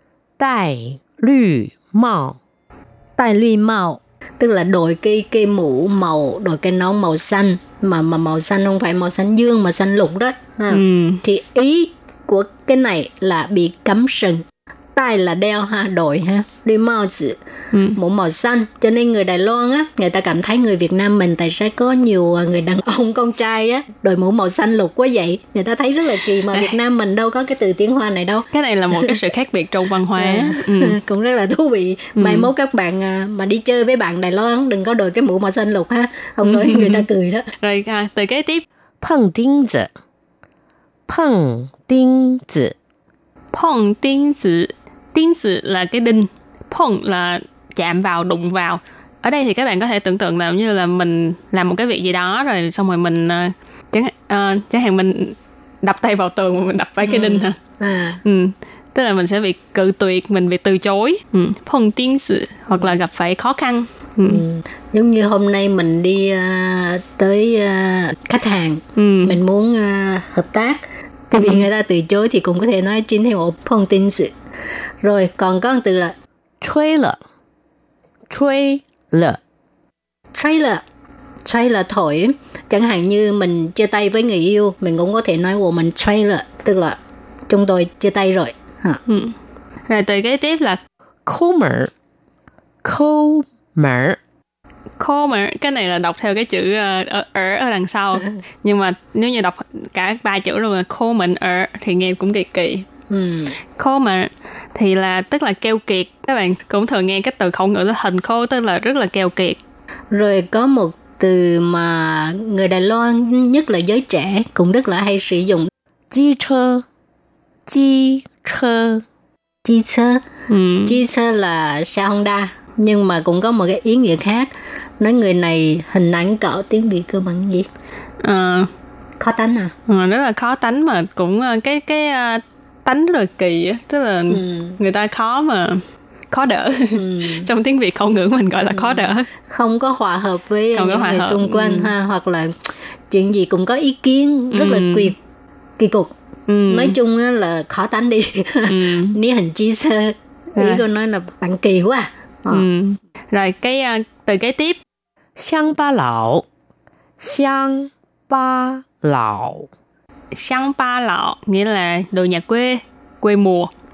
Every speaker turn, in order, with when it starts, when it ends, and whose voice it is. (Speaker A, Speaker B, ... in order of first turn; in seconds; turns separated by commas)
Speaker A: 0.4-2.4, Speaker B: 3.2-14.4, Speaker C: 10.7-11.2, Speaker B: 14.9-17.4, Speaker C: 17.7-18.0, Speaker B: 17.9-28.4, Speaker C: 28.5-31.0, Speaker B: 30.1-37.5, Speaker C: 32.1-32.5, Speaker C: 36.4-37.0, Speaker C: 37.6-38.6, Speaker A: 39.0-39.9, Speaker A: 41.1-42.7, Speaker C: 43.5-57.6, Speaker B: 57.0-58.2, Speaker C: 58.2-64.4, Speaker B: 64.2-74.3, Speaker C: 69.0-69.4, Speaker B: 75.0-76.1, Speaker A: 76.6-77.2, Speaker A: 78.3-79.4, Speaker B: 80.3-80.8, Speaker B: 81.4-87.0, Speaker B: 87.5-89.0, Speaker C: 89.1-89.3, Speaker C: 89.9-90.8, Speaker A: 91.2-91.9, Speaker A: 92.8-94.2, Speaker C: 95.0-102.8, Speaker B: 103.1-103.6, Speaker C: 103.8-109.6, Speaker B: 110.1-115.7, Speaker A: 116.1-116.8, Speaker A: 117.7-119.0, Speaker B: 119.6-120.2, Speaker C: 120.5-121.0, Speaker B: 120.9-127.7, Speaker C: 128.2-128.7, Speaker B: 129.2-129.7, Speaker C: 129.9-139.3, Speaker B: 134.3-134.8, Speaker B: 136.9-137.5, Speaker B: 138.7-145.2, Speaker C: 140.7-141.9, Speaker C: 144.5-145.1, Speaker B: 145.8-146.1, Speaker C: 146.5-146.9, Speaker B: 146.7-152.7, Speaker C: 148.7-149.2, Speaker C: 150.6-150.8, Speaker C: 152.5-154.8, Speaker A: 155.4-156.4, Speaker A: 157.2-159.7, Speaker C: 160.3-163.7